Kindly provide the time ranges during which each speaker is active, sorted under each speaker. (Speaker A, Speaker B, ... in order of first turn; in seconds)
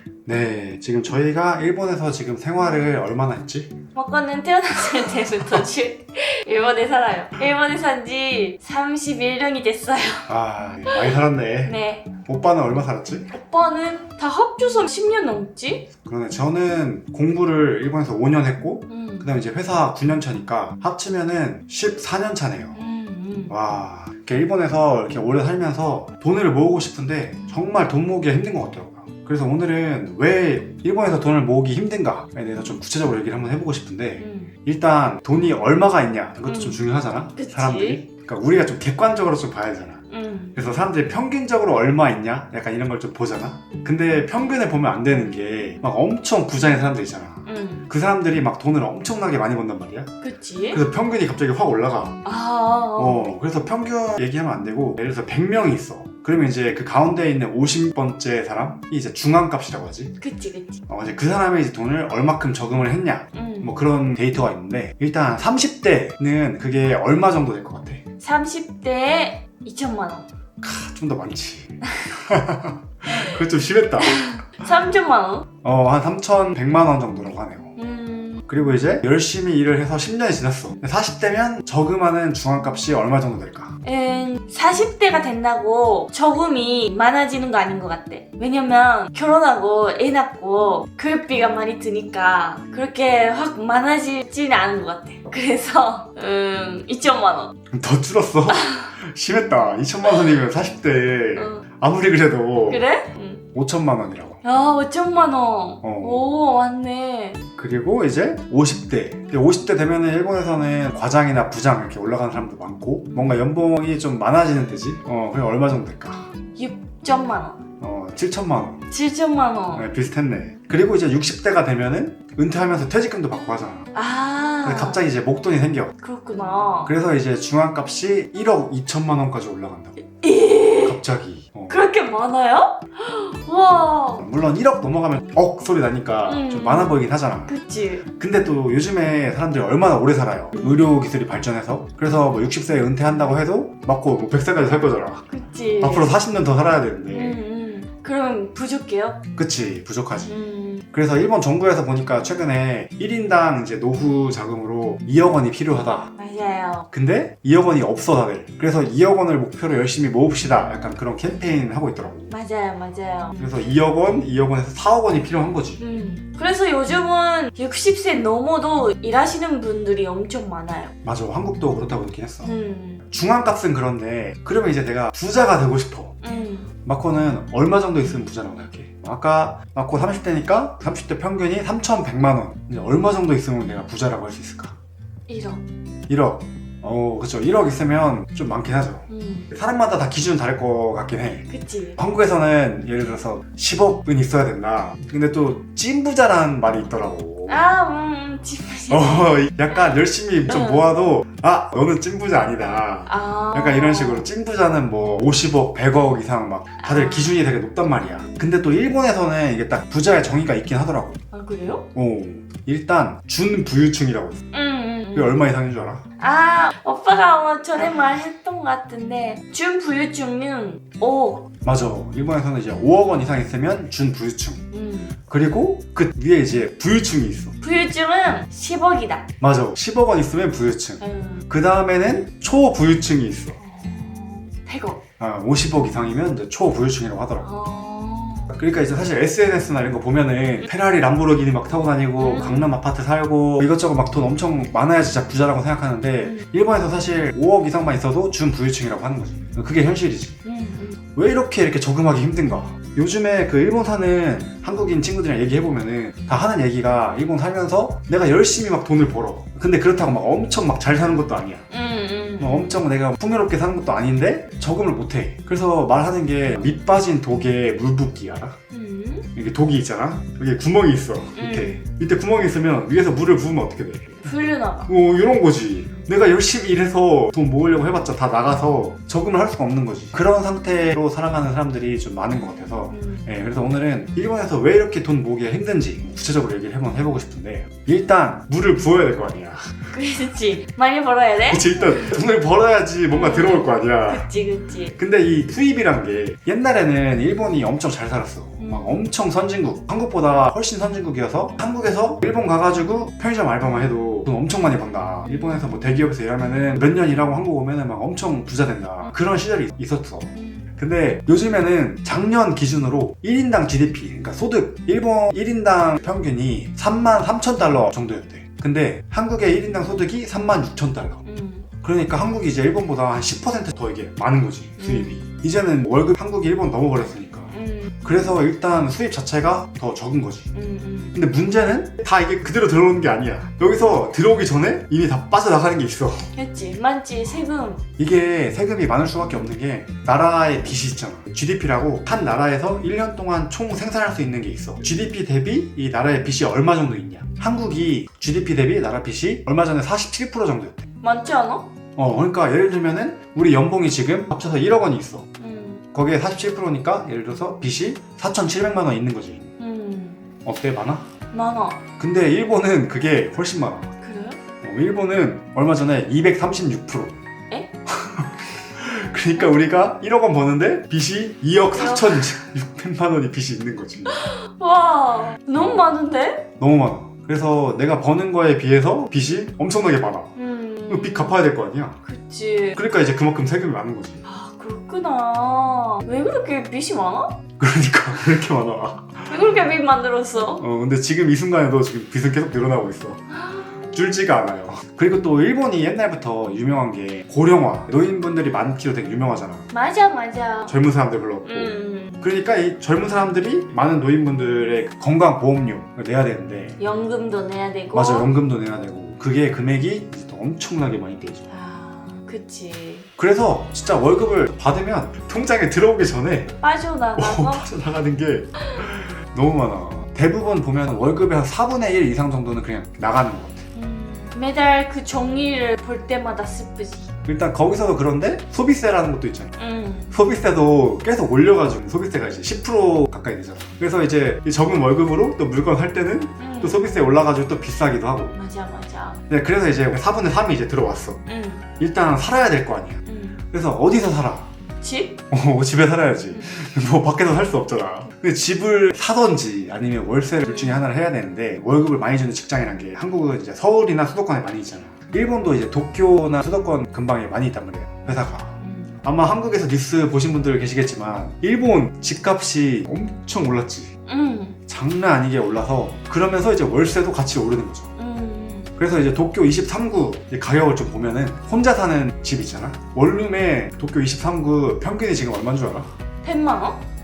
Speaker A: 0.2-3.7, 10.3-13.3, 16.0-22.8, 23.5-40.0, 40.5-50.1, 50.7-52.1, 53.0-60.1, 60.9-68.0, 70.6-74.4, 75.6-77.8, 78.5-83.8, 97.7-102.8, 103.5-104.4, 105.8-106.3, 107.5-116.3, 117.8-118.8, 119.7-123.9, 124.6-126.0, 126.8-130.0, 130.8-131.8, 134.2-137.5, 138.1-145.3, 145.8-147.4, 149.3-150.4, 150.9-156.1, 156.9-162.3, 163.4-165.8, 171.0-172.5, 173.1-176.2, 176.8-184.8, 186.1-197.7, 198.9-211.2, 211.9-214.4, 215.1-216.0, 221.6-224.6, 225.3-227.5, 229.4-233.6, 235.2-237.5, 238.5-250.4, 251.1-261.6, 262.4-268.6, 269.3-274.3, 274.9-289.7, 291.4-294.3, 295.0-321.2, 321.8-330.5, 331.1-336.3, 338.0-350.9, 351.9-355.3, 355.9-359.5, 360.4-361.1, 362.0-363.9, 364.6-367.1, 367.9-374.3, 376.6-380.3, 380.9-382.0, 382.7-384.2, 387.6-389.4, 390.6-393.2, 393.8-399.7, 400.7-406.8, 407.9-411.5, 413.2-416.5, 417.1-423.6, 427.2-429.6, 430.1-438.4, 439.3-441.2, 441.8-444.5, 445.3-463.9, 464.6-467.9, 468.8-475.9
Speaker B: 3.9-10.3, 11.7-12.1, 13.3-15.9, 18.9-19.3, 22.7-23.5, 34.2-34.5, 36.5-36.8, 37.4-38.0, 40.1-40.5, 47.5-47.9, 50.2-50.8, 52.2-53.4, 60.2-60.8, 63.3-63.8, 68.2-70.3, 74.1-75.5, 77.8-78.5, 83.8-97.5, 98.5-98.9, 101.3-101.6, 102.7-103.5, 104.4-107.4, 116.5-117.6, 118.9-119.9, 123.9-125.0, 126.0-126.9, 130.2-131.0, 131.7-134.2, 136.2-138.1, 140.5-140.9, 145.3-146.2, 147.1-149.2, 150.3-150.9, 156.2-156.9, 162.3-163.6, 165.8-170.9, 172.4-173.0, 176.2-176.7, 185.3-185.6, 189.1-189.5, 191.5-192.0, 197.5-200.9, 203.1-204.2, 206.8-207.3, 211.3-211.9, 214.5-215.4, 216.2-221.5, 224.7-225.2, 227.6-229.3, 231.0-231.4, 233.6-235.0, 237.4-238.5, 242.2-242.7, 250.4-251.0, 261.7-262.8, 268.7-269.3, 271.4-271.8, 274.2-274.9, 282.9-283.2, 289.9-292.1, 293.1-295.0, 298.6-299.0, 310.3-310.6, 321.2-321.7, 324.8-325.2, 327.5-328.0, 330.5-331.2, 336.3-337.8, 351.0-351.7, 355.4-355.8, 359.6-360.2, 361.3-361.8, 364.0-364.4, 369.3-369.8, 371.6-372.4, 374.1-376.5, 380.4-381.4, 382.0-382.8, 384.2-387.4, 389.3-390.6, 393.3-393.7, 399.7-400.8, 401.4-402.2, 406.8-408.3, 411.5-413.1, 416.6-417.6, 423.7-427.1, 429.6-430.1, 436.4-436.9, 438.3-439.2, 441.3-441.7, 443.1-443.4, 444.8-445.2, 450.4-450.8, 458.6-459.0, 464.1-464.6, 468.0-468.7, 476.2-476.8